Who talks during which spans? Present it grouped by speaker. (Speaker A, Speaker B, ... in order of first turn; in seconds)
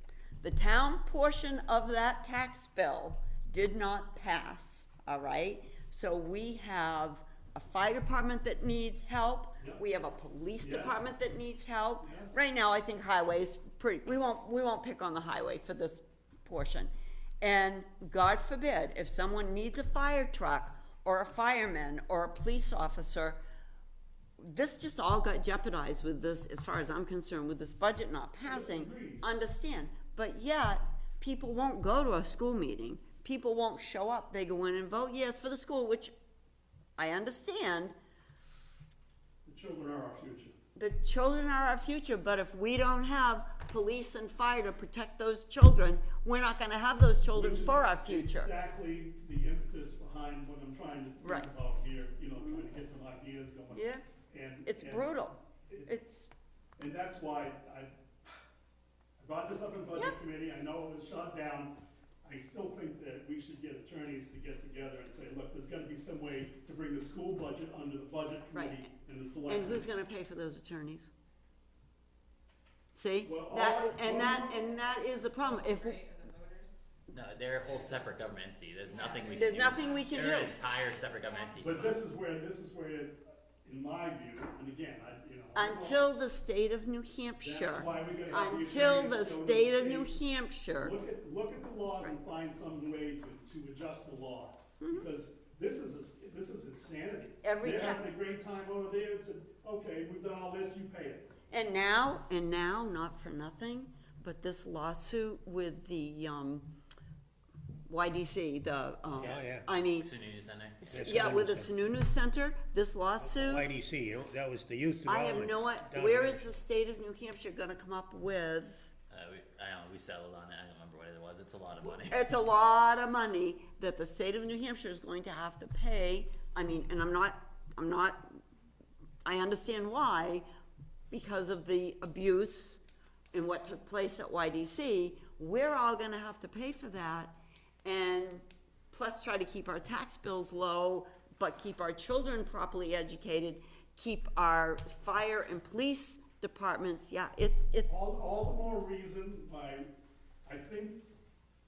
Speaker A: 0.4-23.4, 24.4-36.1, 37.0-38.0, 40.7-48.5, 51.2-51.5, 52.4-52.6, 53.7-54.0, 54.6-56.3, 68.5-68.9, 69.5-71.1, 72.9-76.0, 79.3-80.5, 85.5-90.9, 94.8-95.1, 97.4-98.0, 101.5-106.7, 107.9-110.1, 110.8-113.7, 115.0-118.9, 122.0-128.4, 129.2-130.4, 131.1-132.8, 133.3-148.0
Speaker B: 10.6-11.0, 12.0-12.4, 28.4-29.2, 39.4-40.5, 47.3-55.9, 56.8-58.4, 59.2-69.8, 73.2-74.6, 81.5-86.0, 87.4-90.2, 90.8-101.3, 147.9-149.9, 150.4-151.0
Speaker C: 74.0-77.0, 77.6-78.1, 78.8-81.5
Speaker D: 77.1-82.0, 110.0-110.8, 119.1-122.2
Speaker E: 109.2-109.7, 110.8-111.8, 113.2-116.6